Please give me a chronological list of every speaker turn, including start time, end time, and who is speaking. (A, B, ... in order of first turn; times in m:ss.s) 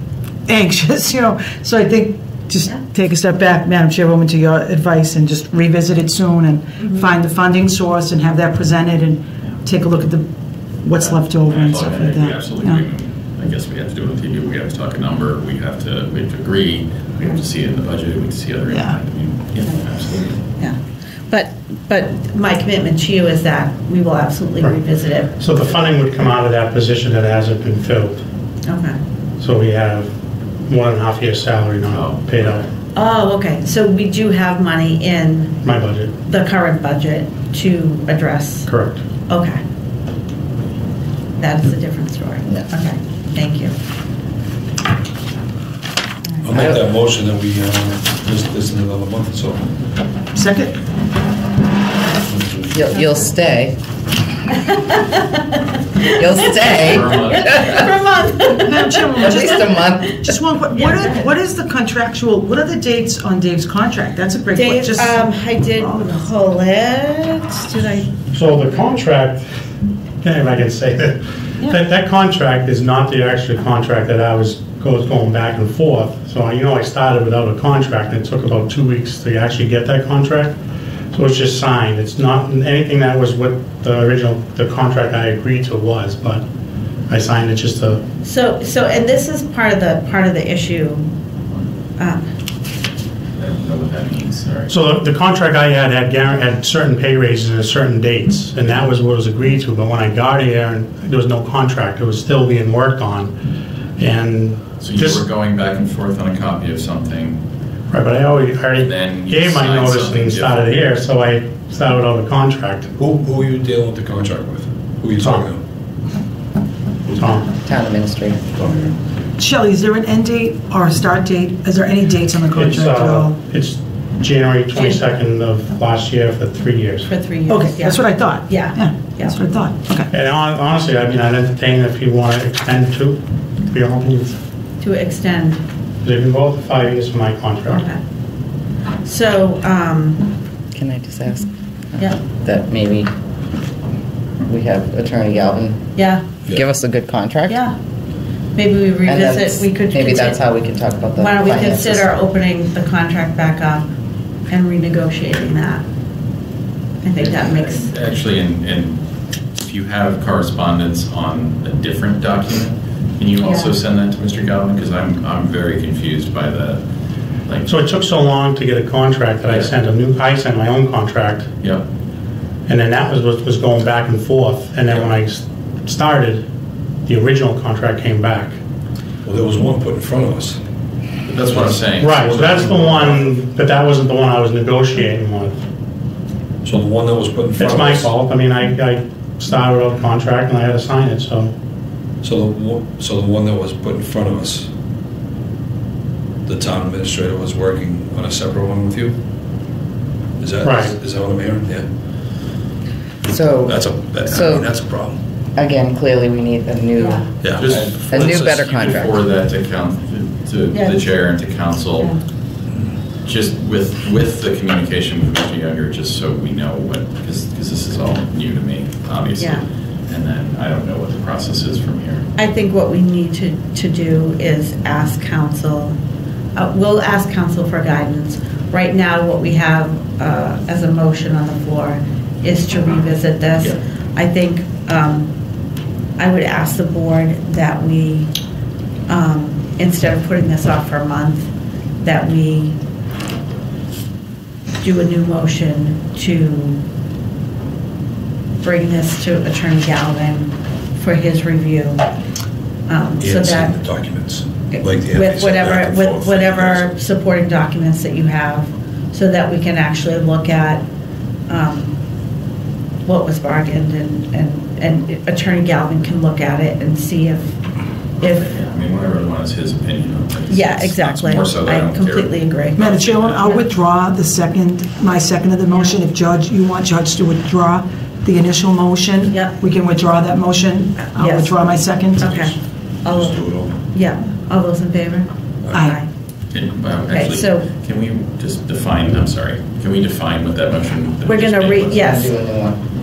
0:00.5-0:10.3 A
0:10.8-0:12.8 A
0:11.0-0:20.4 B
0:18.7-0:19.0 A
0:21.3-0:25.3 C
0:25.4-0:28.2 D
0:28.7-0:29.0 C
0:29.4-0:30.1 D
0:30.7-0:32.7 D
0:31.9-0:32.6 B
0:33.0-0:35.6 C
0:35.6-0:36.2 D
0:36.3-0:38.7 C
0:38.7-0:39.1 D
0:39.2-0:39.6 C
0:41.4-0:43.8 C
0:46.4-0:49.6 E
0:46.5-0:46.8 F
0:50.3-0:50.8 A
0:52.7-0:53.8 F
0:56.2-0:57.8 F
0:56.6-0:57.9 B
0:57.5-0:58.8 C
0:58.5-1:06.3 A
0:59.1-1:00.4 F
1:04.5-1:08.1 C
1:08.3-1:09.5 D
1:10.2-1:20.6 D
1:21.1-1:26.4 D
1:27.1-1:28.0 D
1:28.2-1:31.1 C
1:32.0-1:32.3 C
1:33.4-1:34.8 B
1:34.7-1:43.3 D
1:44.0-1:45.2 D
1:44.8-1:47.4 B
1:47.9-1:52.9 D
1:48.8-1:50.9 B
1:53.0-1:55.6 E
1:55.2-1:55.5 D
1:57.1-1:57.5 D
1:57.5-1:58.5 F
1:58.6-1:59.0 E
1:59.4-2:03.4 A
2:02.5-2:07.1 D
2:04.8-2:05.1 C
2:07.1-2:09.4 C
2:07.5-2:10.1 A
2:10.1-2:14.4 D
2:14.8-2:15.6 C
2:16.0-2:17.9 D
2:19.0-2:20.3 C
2:20.8-2:23.1 F
2:24.4-2:25.8 F
2:26.0-2:26.2 C
2:26.5-2:27.6 F
2:27.5-2:27.7 C
2:28.6-2:30.4 C
2:29.1-2:32.1 F
2:31.2-2:33.9 C
2:34.5-2:35.8 C
2:37.0-2:37.9 C
2:37.2-2:39.0 B
2:39.6-2:46.8 B
2:43.4-2:43.7 C
2:47.5-2:47.7 B
2:47.7-2:51.5 D
2:49.4-2:49.7 B
2:52.7-2:56.4 D
2:57.1-2:58.6 D
2:59.2-3:00.6 E
3:01.3-3:03.1 B
3:01.4-3:03.3 E
3:02.0-3:05.6 D
3:06.6-3:08.1 E
3:07.6-3:11.5 D
3:12.2-3:14.7 E
3:16.5-3:19.2 E
3:20.4-3:21.8 E
3:20.6-3:20.9 D
3:23.3-3:24.7 F
3:23.6-3:25.2 E
3:25.6-3:29.1 F
3:27.4-3:28.7 E
3:27.5-3:32.1 B
3:33.2-3:42.3 B
3:39.4-3:39.6 C
3:42.4-3:46.0 C
3:46.6-3:55.3 C
3:56.2-3:58.3 C
3:59.1-4:01.5 C
4:02.0-4:02.8 C
4:04.8-4:06.8 C
4:08.6-4:12.0 C
4:12.9-4:13.8 C
4:13.2-4:16.9 E
4:14.7-4:20.8 C
4:21.5-4:22.0 C
4:23.0-4:27.5 C
4:28.2-4:28.5 C
4:28.4-4:32.3 B
4:30.5-4:33.0 C
4:32.8-4:42.5 A
4:32.8-4:33.4 B
4:39.3-4:39.6 C
4:41.2-4:41.6 C
4:42.2-4:42.5 C
4:42.2-4:42.5 E
4:43.0-4:43.8 E
4:43.0-4:45.3 C
4:45.6-4:46.0 E
4:45.7-4:46.0 A
4:45.8-4:46.1 C
4:46.5-4:52.1 B
4:47.1-4:47.7 C
4:51.3-4:52.3 C
4:51.9-4:52.8 F